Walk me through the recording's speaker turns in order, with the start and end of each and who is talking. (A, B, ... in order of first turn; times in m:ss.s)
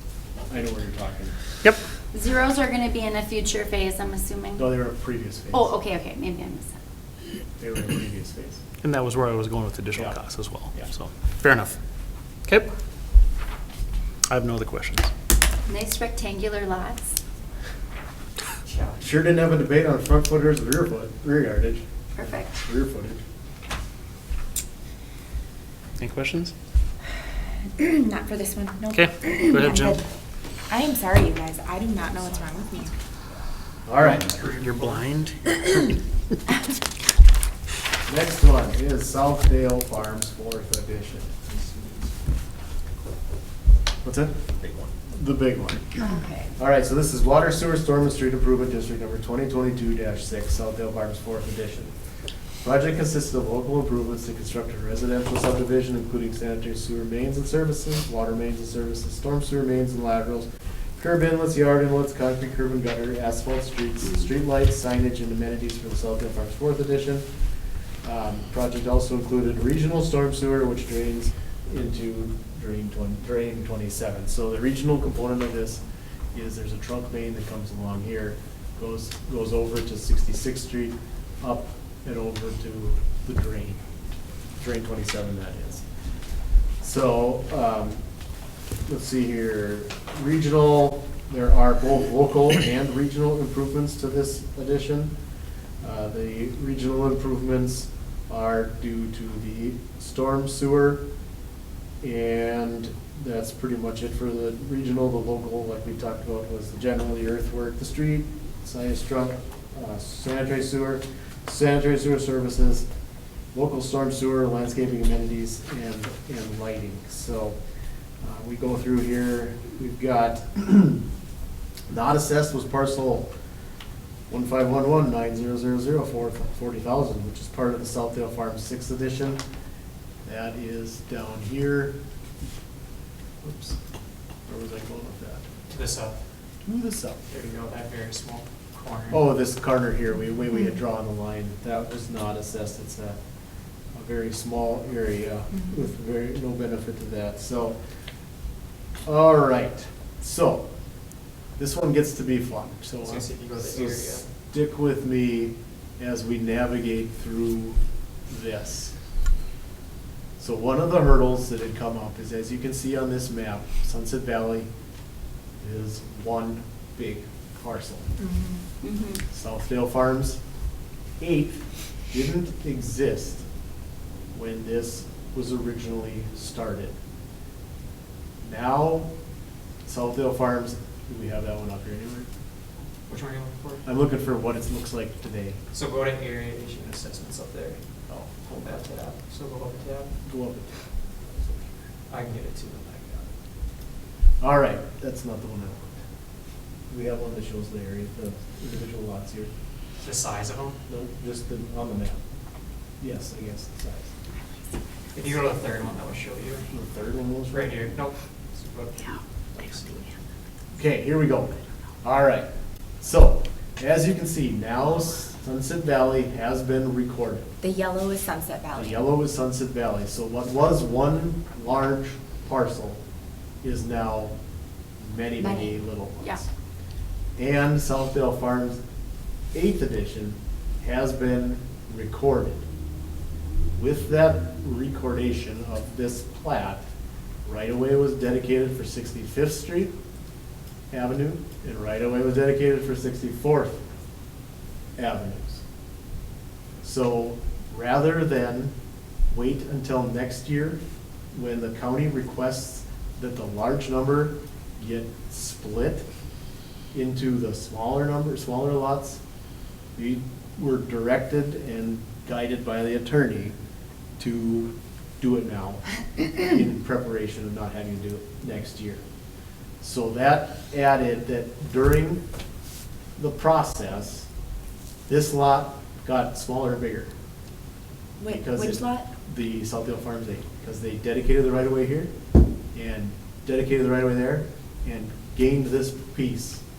0:00.5-0:01.3 A
0:02.1-0:04.7 B
0:04.6-0:05.7 A
0:05.5-0:06.8 B
0:07.6-0:08.6 A
0:08.8-0:11.8 C
0:14.3-0:15.1 C
0:15.7-0:17.1 B
0:18.6-0:19.0 D
0:19.0-0:23.2 A
0:22.2-0:22.5 B
0:26.0-0:26.5 C
0:27.8-0:30.0 E
0:28.9-0:30.0 C
0:30.7-0:32.9 E
0:33.8-0:34.3 A
0:34.0-0:35.9 C
0:34.4-0:35.0 D
0:38.0-0:41.4 A
0:44.0-0:46.0 A
0:46.0-0:46.5 E
0:46.6-0:51.9 A
0:52.6-1:07.2 A
1:08.0-1:15.8 A
1:16.3-1:23.8 A
1:24.6-1:25.8 A
1:26.8-1:28.0 A
1:28.8-1:35.1 A
1:35.8-1:41.0 A
1:42.0-1:52.8 A
1:53.5-1:57.6 A
1:58.2-2:01.0 A
2:01.9-2:03.3 A
2:04.3-2:09.4 A
2:10.2-2:12.0 A
2:13.4-2:13.8 A
2:14.5-2:15.4 A
2:15.7-2:16.2 D
2:16.6-2:17.2 A
2:17.3-2:19.2 D
2:19.1-2:23.2 A
2:23.9-2:27.8 A
2:29.0-2:30.7 A
2:31.6-2:37.8 A
2:33.0-2:34.3 D
2:38.3-2:38.9 A
2:40.4-2:44.7 A
2:45.6-2:48.1 A
2:48.2-2:48.6 E
2:48.8-2:49.2 B
2:49.3-2:50.4 A
2:51.2-2:53.4 A
2:54.3-2:56.9 A
2:58.4-2:59.1 A
2:59.8-3:02.3 A
3:03.1-3:03.8 D
3:03.8-3:05.6 A
3:05.7-3:07.8 D
3:08.1-3:08.8 A
3:08.6-3:10.1 D
3:10.2-3:10.8 A
3:12.1-3:13.3 D
3:14.4-3:16.0 A
3:16.9-3:19.5 A
3:20.0-3:20.8 D
3:20.9-3:22.2 A
3:23.0-3:24.1 A
3:25.1-3:26.6 D
3:26.7-3:27.9 A
3:27.5-3:30.1 D
3:30.7-3:32.5 A
3:33.0-3:37.5 A
3:37.6-3:39.0 E
3:38.8-3:43.0 A
3:43.6-3:44.3 A
3:45.0-3:46.5 A
3:45.4-3:45.7 E
3:47.4-3:48.8 A
3:49.5-3:52.6 A
3:53.8-3:56.8 A
3:57.4-3:59.9 A
4:00.9-4:03.8 A
4:05.0-4:05.6 A
4:06.8-4:08.7 A
4:09.3-4:10.8 A
4:11.3-4:16.0 A
4:16.9-4:19.2 A
4:19.9-4:23.6 A
4:24.2-4:29.0 A
4:29.8-4:32.2 A
4:33.2-4:34.3 A
4:35.1-4:37.1 A
4:38.2-4:39.1 E
4:38.3-4:42.1 A
4:42.7-4:46.6 A